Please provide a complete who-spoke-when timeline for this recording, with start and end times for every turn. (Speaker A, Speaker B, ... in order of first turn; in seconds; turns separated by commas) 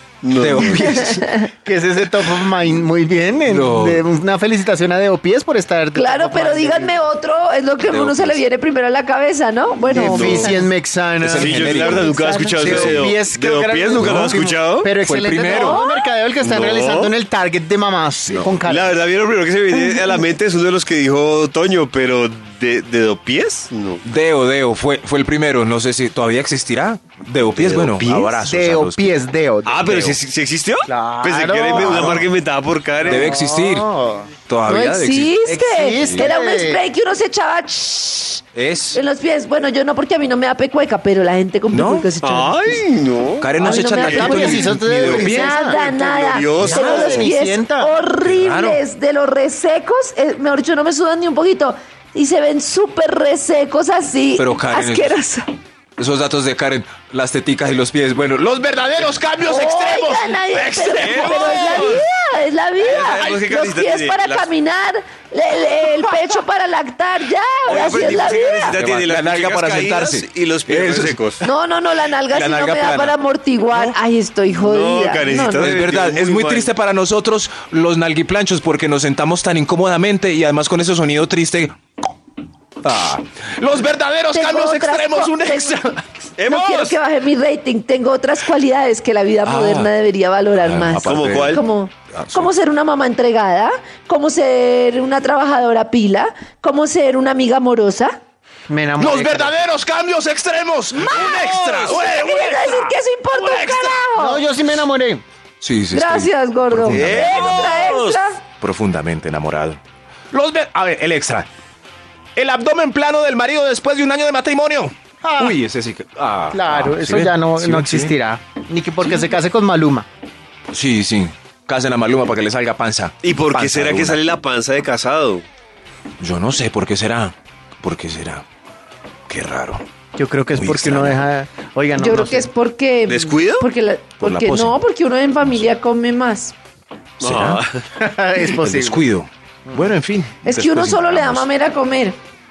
Speaker A: 0.2-1.0, Speaker B: 0.3-1.3, Speaker C: 0.9-1.5, Speaker D: 1.6-7.0, Speaker B: 3.5-4.0, Speaker C: 6.0-10.6, Speaker B: 7.8-8.4, Speaker D: 9.8-19.0, Speaker A: 10.0-10.6, Speaker B: 11.2-13.1, Speaker A: 11.4-14.9, Speaker B: 13.9-14.4, Speaker B: 15.0-15.8, Speaker C: 15.4-16.1, Speaker A: 16.4-17.1, Speaker B: 18.3-18.6, Speaker A: 18.6-24.0, Speaker B: 24.0-29.1, Speaker A: 27.5-28.3, Speaker D: 28.1-29.8, Speaker A: 29.7-33.4, Speaker B: 29.8-30.2, Speaker D: 30.9-32.3, Speaker B: 31.7-32.3, Speaker D: 33.0-34.3, Speaker B: 33.0-33.9, Speaker B: 34.5-35.4, Speaker C: 34.6-42.8, Speaker D: 35.5-36.8, Speaker B: 36.0-36.3, Speaker B: 38.5-39.0, Speaker B: 41.7-42.1, Speaker A: 42.2-44.6, Speaker B: 43.4-45.5, Speaker C: 43.6-55.5, Speaker D: 43.6-45.8, Speaker A: 45.6-47.3, Speaker B: 46.6-47.1, Speaker D: 46.6-48.0, Speaker B: 48.2-48.8, Speaker B: 54.4-55.2, Speaker B: 56.0-62.0, Speaker C: 59.4-68.8, Speaker A: 60.9-62.0, Speaker A: 62.8-64.5, Speaker B: 63.1-63.4, Speaker A: 67.7-71.4, Speaker B: 68.7-71.2, Speaker C: 71.4-75.6, Speaker B: 72.3-73.2, Speaker A: 74.6-76.7, Speaker B: 75.5-81.8, Speaker B: 82.8-86.0, Speaker C: 84.3-85.9, Speaker A: 86.4-87.0, Speaker C: 86.4-98.2, Speaker B: 89.5-89.9, Speaker B: 90.6-92.5, Speaker A: 91.0-91.7, Speaker D: 98.7-99.6, Speaker B: 99.0-104.0, Speaker C: 100.9-104.5, Speaker A: 101.1-102.0, Speaker D: 104.2-105.2, Speaker B: 105.6-107.9, Speaker C: 105.9-108.4, Speaker A: 106.9-108.2, Speaker B: 108.6-109.8, Speaker B: 110.3-111.5, Speaker B: 112.4-118.1, Speaker D: 115.2-115.6, Speaker D: 116.5-120.1, Speaker B: 120.7-124.2, Speaker A: 123.2-125.5, Speaker B: 126.2-128.4, Speaker B: 129.3-129.8, Speaker D: 130.2-132.5, Speaker B: 130.5-131.3, Speaker C: 132.0-136.5, Speaker A: 133.1-133.7, Speaker B: 134.2-134.8, Speaker B: 137.2-137.6, Speaker A: 137.2-137.8, Speaker D: 138.0-139.0, Speaker B: 138.6-141.5, Speaker C: 140.4-142.2